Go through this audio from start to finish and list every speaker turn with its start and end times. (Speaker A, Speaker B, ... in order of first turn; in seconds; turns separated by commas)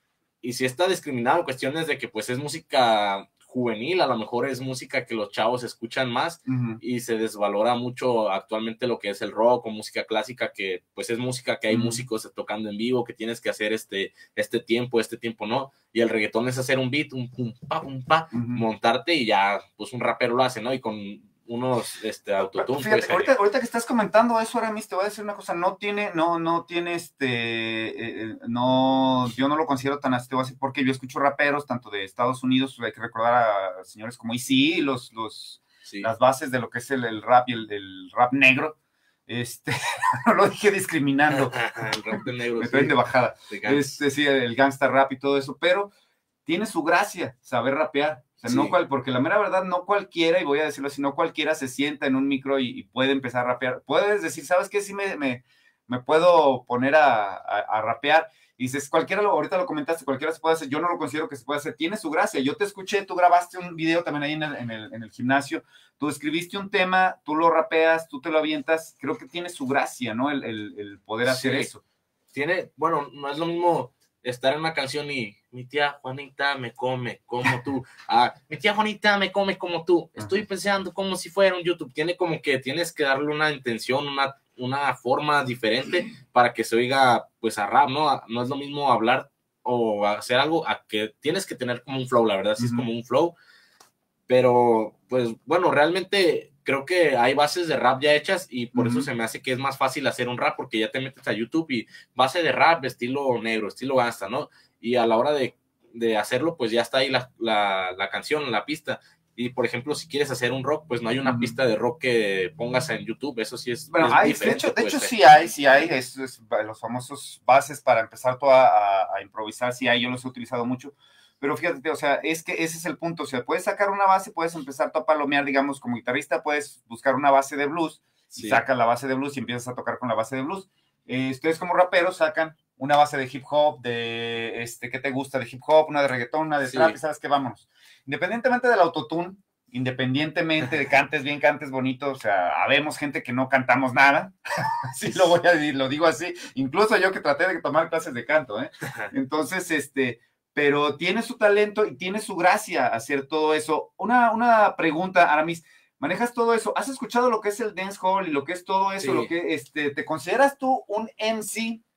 Speaker A: 0.4-23.3, Speaker B: 6.5-6.8, Speaker B: 11.7-12.0, Speaker B: 18.3-18.6, Speaker B: 22.5-41.6, Speaker A: 41.3-43.0, Speaker B: 42.1-45.9, Speaker A: 43.5-44.0, Speaker B: 46.5-71.8, Speaker A: 48.4-48.8, Speaker A: 71.2-71.7, Speaker A: 72.3-93.3, Speaker B: 80.2-80.4, Speaker B: 92.6-92.9, Speaker A: 94.3-115.1, Speaker B: 98.8-99.1, Speaker B: 111.2-111.5, Speaker B: 113.9-161.8, Speaker A: 128.3-128.6, Speaker A: 136.6-137.0, Speaker A: 159.0-159.3